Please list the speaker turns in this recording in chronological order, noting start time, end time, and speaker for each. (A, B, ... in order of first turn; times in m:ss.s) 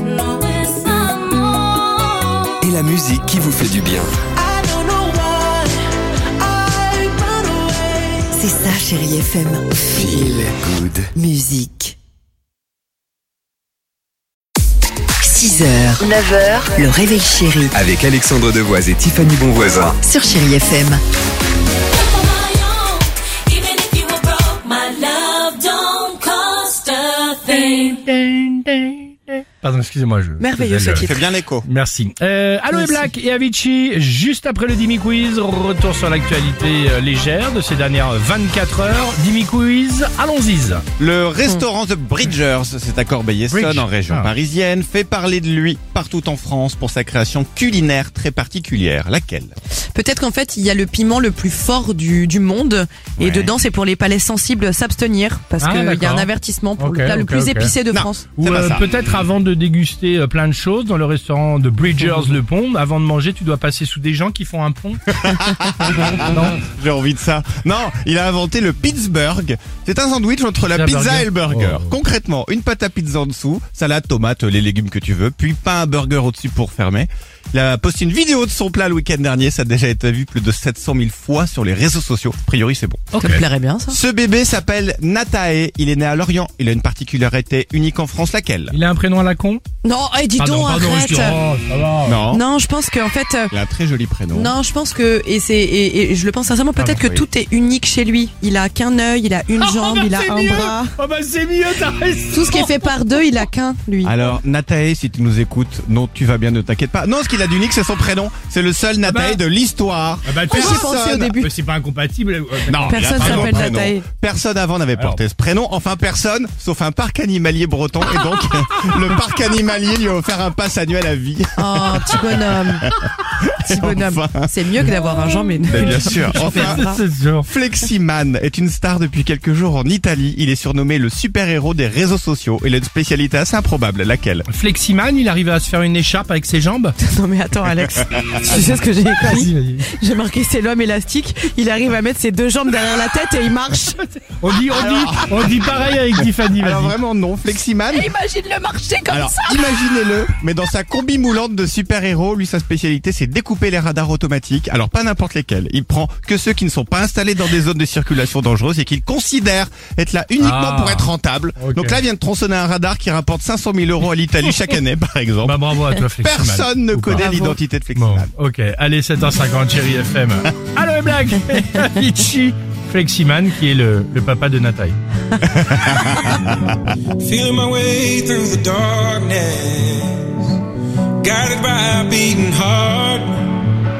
0:00.4-0:01.5 A
0:02.6-0:04.2 B
0:04.4-0:05.7 C
0:06.4-0:08.2 C
0:08.3-0:10.6 D
0:09.9-0:11.1 B
0:11.1-0:12.0 D
0:15.2-0:17.7 D
0:17.7-0:20.0 B
0:20.0-0:21.0 D
0:22.2-0:22.8 A
0:23.6-0:27.2 A
0:27.4-0:40.8 E
0:30.4-0:31.2 C
0:31.0-0:31.7 F
0:32.7-0:33.0 C
0:41.0-0:49.5 F
0:43.5-0:44.3 E
0:49.9-0:58.2 C
0:53.2-0:53.5 F
0:55.6-0:57.7 E
0:57.9-0:58.8 F
0:58.4-1:05.0 E
1:05.1-1:23.1 F
1:06.2-1:06.6 E
1:10.7-1:11.9 E
1:23.1-1:24.0 C
1:23.2-1:23.4 E
1:23.9-1:28.8 F
1:28.7-1:29.6 E
1:29.8-1:31.4 C
1:30.4-1:32.2 E
1:32.0-1:32.4 F
1:32.3-1:33.5 C
1:33.5-1:34.5 F
1:34.3-1:40.9 C
1:36.8-1:37.2 F
1:39.6-1:42.8 E
1:42.3-1:44.1 C
1:44.0-1:51.3 F
1:49.0-1:49.4 E
1:50.2-1:53.7 E
1:50.5-1:51.5 C
1:52.7-2:02.9 F
1:52.8-1:54.0 C
1:54.9-1:55.2 E
2:01.6-2:02.9 C
2:03.6-2:07.0 C
2:03.6-2:04.9 F
2:05.0-2:07.5 E
2:05.7-2:06.9 F
2:07.4-2:14.5 F
2:14.5-2:17.0 E
2:17.0-2:24.0 C
2:17.8-2:18.4 F
2:18.5-2:19.9 E
2:24.2-2:26.9 E
2:24.7-2:28.1 F
2:27.9-2:29.9 C
2:29.1-2:45.6 F
2:40.4-2:42.0 E
2:45.4-2:47.2 E
2:46.2-2:48.3 F
2:47.1-2:47.6 C
2:48.0-2:55.0 E
2:55.4-2:56.9 F
2:57.2-3:00.5 G
3:01.2-3:03.6 G